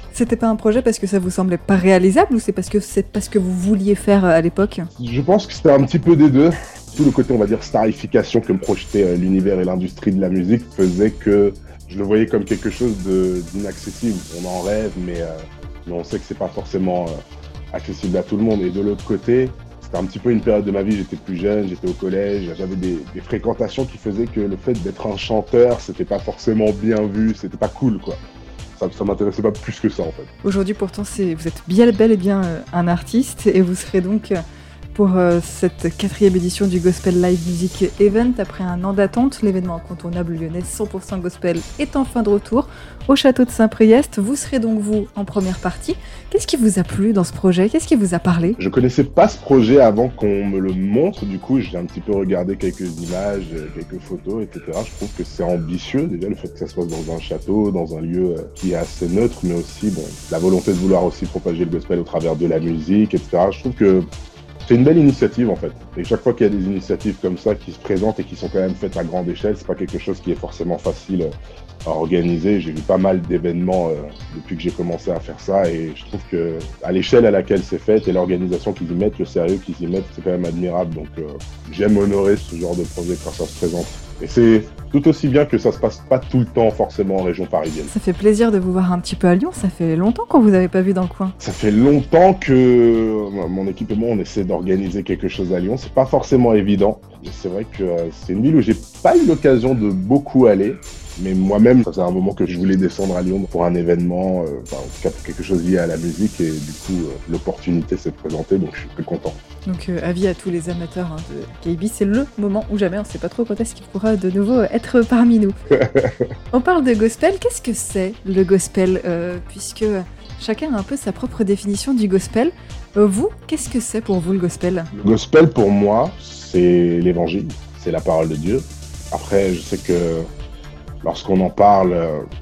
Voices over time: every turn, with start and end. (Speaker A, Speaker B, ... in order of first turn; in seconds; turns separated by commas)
Speaker A: 0.1-4.9, Speaker B: 5.0-17.2, Speaker B: 17.7-28.2, Speaker B: 28.8-30.3, Speaker A: 30.4-34.4, Speaker A: 34.9-48.6, Speaker B: 48.6-64.1, Speaker B: 64.7-87.9, Speaker A: 87.9-91.3, Speaker B: 91.4-109.4, Speaker A: 109.7-115.6, Speaker B: 115.7-116.2, Speaker A: 116.5-124.9, Speaker B: 124.9-130.3, Speaker B: 131.0-132.2